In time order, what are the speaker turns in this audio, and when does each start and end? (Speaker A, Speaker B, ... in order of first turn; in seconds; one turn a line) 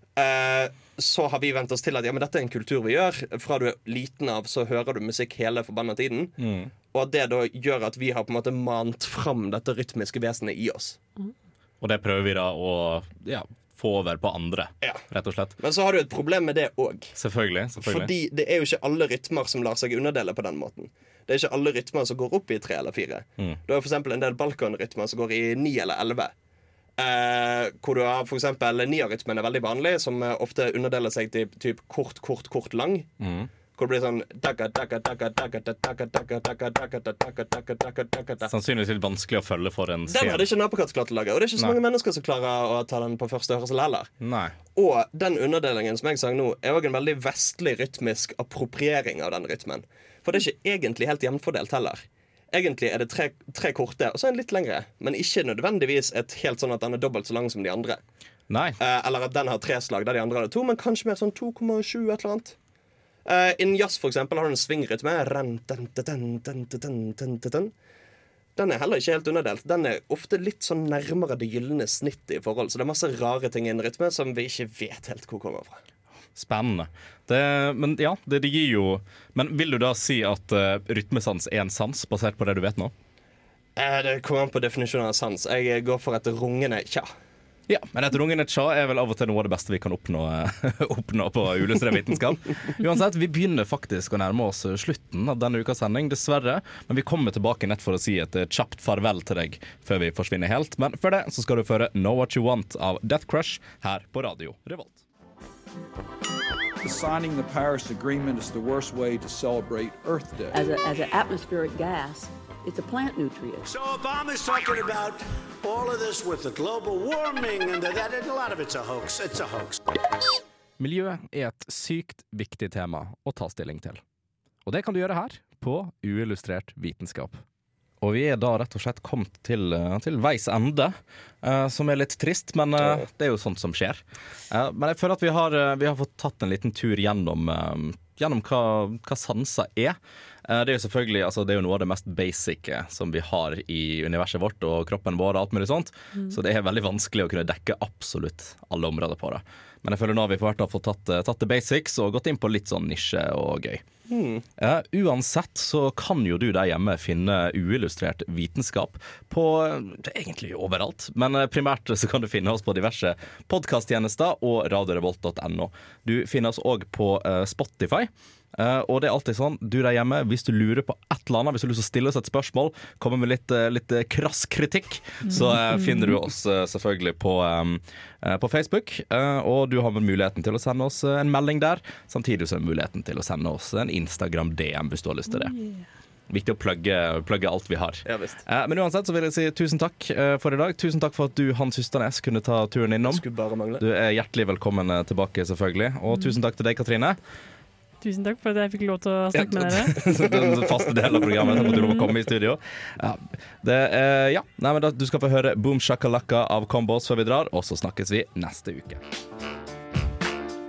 Speaker A: 0.2-6.3
Speaker B: 6.4-6.7
Speaker A: 6.9-11.0
Speaker B: 11.8-15.6
Speaker A: 15.6-17.1
Speaker B: 17.2-18.1
Speaker A: 17.8-26.3
Speaker A: 27.0-33.1
Speaker B: 33.2-33.5
Speaker A: 33.8-38.5
Speaker B: 38.5-40.5
Speaker A: 40.1-44.1
Speaker B: 44.2-44.5
Speaker A: 44.8-58.0
Speaker B: 58.5-58.8
Speaker A: 58.8-62.6
Speaker A: 63.2-67.7
Speaker A: 68.6-75.8
Speaker B: 76.3-82.9
Speaker A: 83.8-87.1
Speaker B: 87.7-105.0
Speaker C: 106.8-110.6
Speaker D: 110.5-113.7
Speaker E: 113.6-119.8
Speaker B: 120.8-124.0
Speaker B: 124.7-127.4
Speaker B: 128.0-153.8
Speaker A: 154.1-154.4
Speaker B: 154.6-185.5
Speaker F: 175.3-176.1
Speaker F: 185.3-185.9
Speaker B: 186.3-193.2
Speaker A: 188.1-188.4
Speaker A: 193.0-193.8
Speaker B: 193.8-197.2
Speaker F: 198.0-200.0
Speaker B: 199.3-209.0